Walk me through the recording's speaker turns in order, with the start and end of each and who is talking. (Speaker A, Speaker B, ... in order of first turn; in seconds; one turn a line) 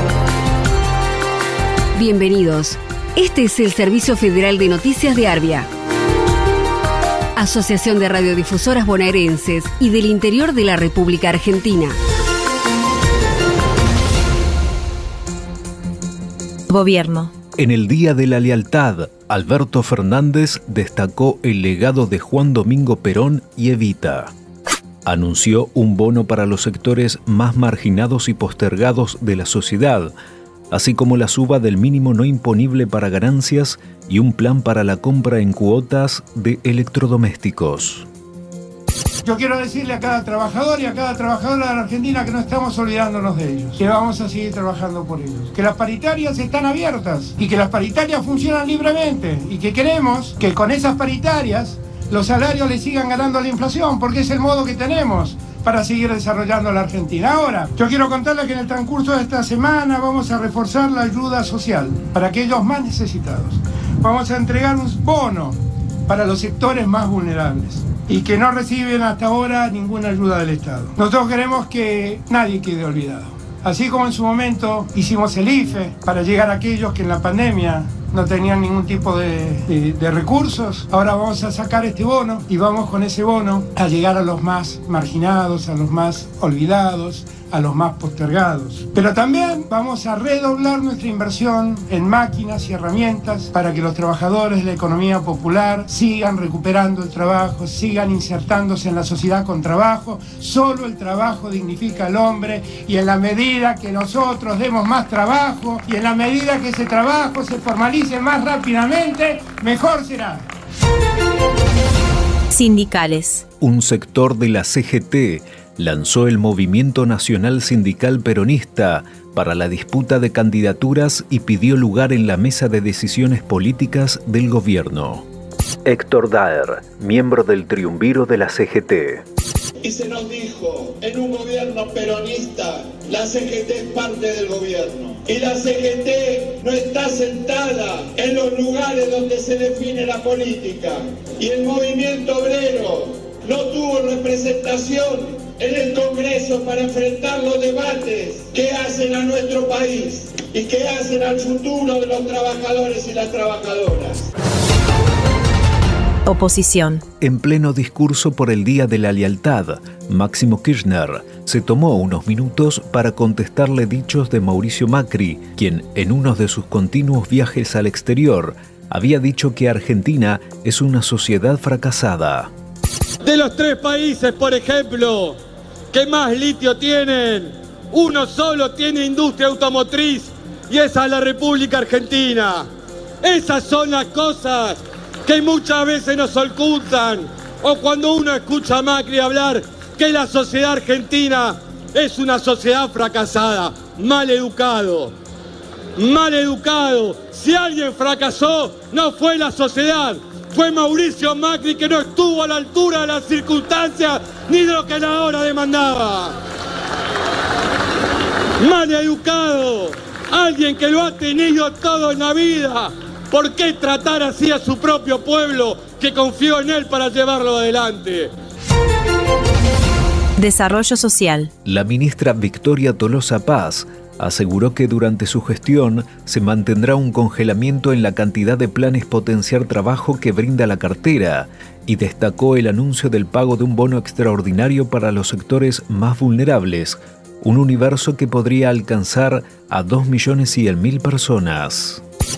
Speaker A: 1.9-5.7
Speaker A: 7.4-11.9
Speaker B: 16.7-17.3
Speaker C: 17.6-24.3
Speaker C: 25.1-30.1
Speaker C: 30.7-38.1
Speaker D: 39.2-110.5
Speaker B: 112.7-113.4
Speaker C: 113.6-125.2
Speaker C: 125.9-129.2
Speaker E: 129.8-154.3
Speaker B: 156.5-157.0
Speaker C: 157.2-172.5
Speaker F: 173.2-175.4
Speaker F: 175.9-182.7
Speaker F: 183.2-195.1
Speaker F: 196.0-206.4
Speaker F: 208.6-218.3
Speaker B: 220.5-221.5
Speaker C: 221.7-242.0